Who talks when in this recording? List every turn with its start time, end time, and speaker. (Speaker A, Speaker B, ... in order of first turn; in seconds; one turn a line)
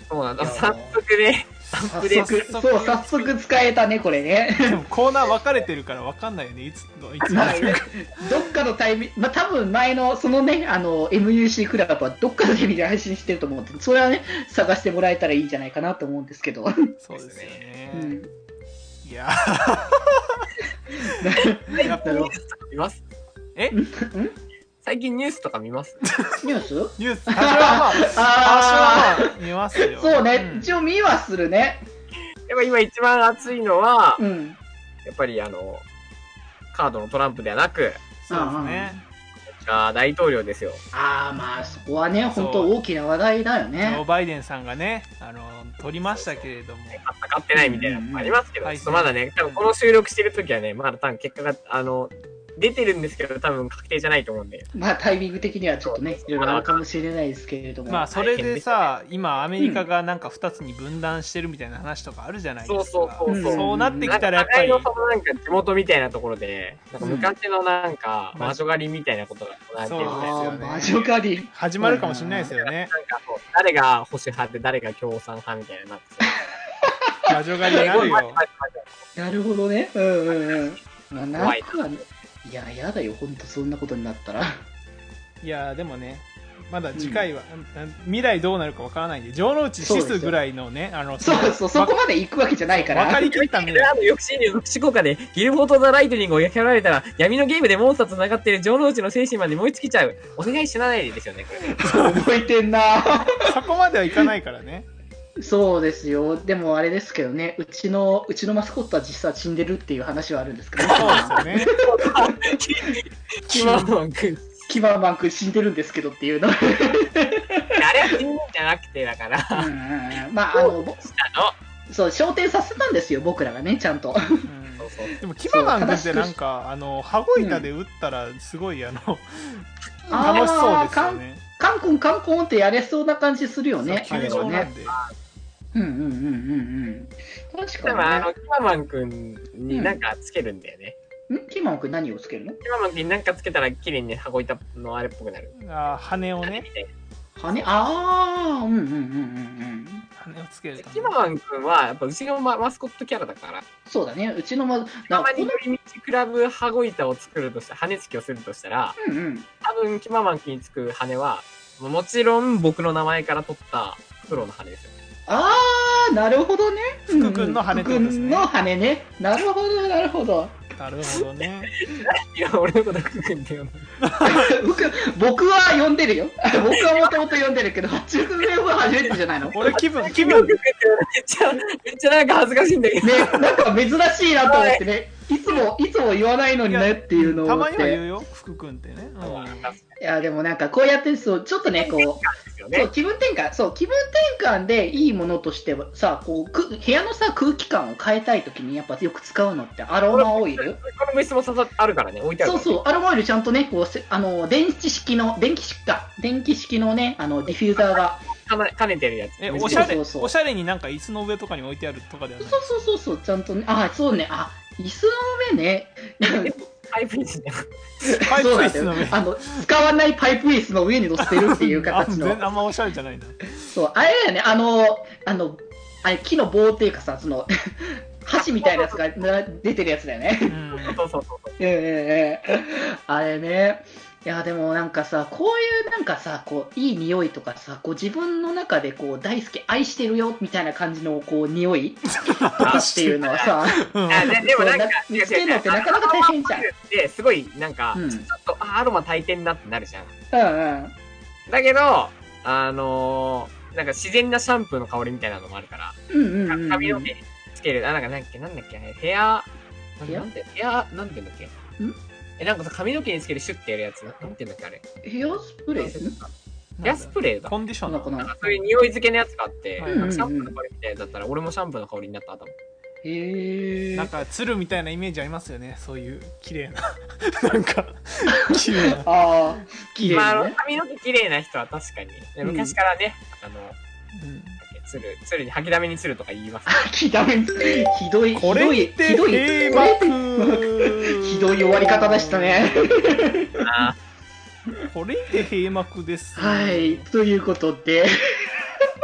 Speaker A: 0.1-2.3
Speaker B: 0.4-1.0
Speaker C: 1.8-3.4
Speaker B: 1.9-4.8
Speaker C: 4.7-8.5
Speaker B: 7.3-16.9
Speaker C: 17.0-18.2
Speaker A: 17.2-17.6
Speaker B: 17.9-18.3
Speaker C: 19.0-21.2
Speaker B: 21.2-22.3
Speaker A: 21.7-23.0
Speaker C: 21.8-22.3
Speaker B: 23.7-24.3
Speaker A: 24.8-26.1
Speaker C: 26.1-26.4
Speaker B: 26.4-31.9
Speaker C: 27.0-30.8
Speaker A: 32.5-34.2
Speaker B: 34.2-34.6
Speaker A: 35.0-35.9
Speaker A: 36.7-38.0
Speaker C: 38.2-39.0
Speaker B: 38.3-39.0
Speaker A: 39.6-40.8
Speaker B: 40.9-44.0
Speaker C: 42.3-42.7
Speaker C: 43.8-47.0
Speaker A: 46.0-54.7
Speaker B: 47.5-48.4
Speaker C: 48.6-49.7
Speaker B: 54.7-58.1
Speaker A: 55.8-56.9
Speaker C: 57.9-64.9
Speaker A: 58.1-58.9
Speaker B: 59.6-59.9
Speaker A: 62.6-70.5
Speaker B: 63.3-64.2
Speaker B: 67.0-67.3
Speaker C: 68.3-68.7
Speaker C: 69.8-72.9
Speaker B: 70.0-72.5
Speaker A: 72.7-76.3
Speaker C: 77.3-78.4
Speaker B: 77.3-78.2
Speaker A: 77.7-79.0
Speaker B: 79.2-84.5
Speaker A: 80.3-80.8
Speaker A: 81.3-82.1
Speaker C: 85.4-91.9
Speaker B: 86.9-87.3
Speaker B: 89.8-90.4
Speaker B: 91.2-93.2
Speaker C: 92.7-93.9
Speaker A: 93.3-101.7
Speaker B: 101.7-103.3
Speaker C: 101.8-102.3
Speaker C: 103.4-104.9
Speaker B: 105.4-111.7
Speaker A: 110.8-114.7
Speaker C: 111.0-111.7
Speaker B: 113.5-113.9
Speaker B: 114.7-118.2
Speaker A: 117.8-119.7
Speaker B: 119.5-121.0
Speaker A: 120.5-121.6
Speaker B: 121.9-124.5
Speaker C: 124.5-131.4
Speaker A: 124.8-125.2
Speaker B: 125.5-126.4
Speaker B: 127.4-127.7
Speaker B: 130.1-134.7
Speaker C: 133.8-134.9
Speaker A: 134.9-135.1
Speaker B: 135.7-138.3
Speaker A: 137.8-141.0
Speaker B: 139.7-140.0
Speaker B: 141.3-142.6
Speaker A: 142.6-145.5
Speaker C: 145.6-146.7
Speaker A: 146.4-146.9
Speaker B: 147.4-150.1
Speaker C: 150.2-151.2
Speaker A: 150.8-153.6
Speaker B: 153.9-155.6
Speaker A: 155.1-159.0
Speaker B: 159.0-159.5
Speaker A: 159.6-164.9
Speaker B: 165.3-170.6
Speaker C: 167.1-168.5
Speaker C: 170.8-171.7
Speaker A: 171.8-173.9
Speaker C: 174.0-174.5
Speaker B: 174.2-179.7
Speaker A: 176.8-177.2
Speaker C: 179.5-180.6
Speaker A: 179.6-183.7
Speaker B: 183.0-188.0
Speaker A: 184.4-184.8
Speaker C: 186.7-189.7
Speaker A: 189.2-190.0
Speaker B: 190.0-200.8
Speaker A: 191.7-192.9
Speaker A: 200.1-202.8
Speaker B: 202.4-208.3
Speaker A: 207.8-209.9
Speaker C: 209.4-212.7
Speaker B: 209.5-210.3
Speaker B: 212.4-216.5
Speaker A: 216.2-217.7
Speaker B: 218.0-222.5
Speaker C: 218.1-219.7
Speaker C: 221.2-223.6
Speaker B: 223.7-230.9
Speaker A: 228.4-229.1
Speaker C: 230.5-231.0
Speaker A: 230.8-231.6
Speaker B: 231.6-246.7
Speaker C: 242.2-244.4
Speaker A: 242.6-243.5
Speaker A: 244.1-250.1
Speaker B: 247.9-248.3
Speaker B: 250.3-250.9
Speaker A: 251.5-259.5
Speaker B: 256.1-257.1
Speaker A: 260.0-261.5
Speaker A: 262.4-264.8
Speaker B: 265.0-266.2
Speaker A: 265.8-266.3
Speaker C: 266.8-268.7
Speaker A: 266.8-267.6
Speaker B: 267.9-268.3
Speaker A: 268.2-272.6
Speaker C: 269.8-270.2
Speaker B: 269.9-270.6
Speaker B: 273.0-274.2
Speaker C: 273.9-279.1
Speaker B: 278.9-280.6
Speaker A: 280.1-283.8
Speaker B: 282.4-282.8
Speaker C: 284.2-284.6
Speaker A: 284.6-286.8
Speaker B: 286.7-293.7
Speaker C: 288.3-293.3
Speaker A: 293.6-294.0
Speaker C: 294.9-297.1
Speaker B: 296.4-298.6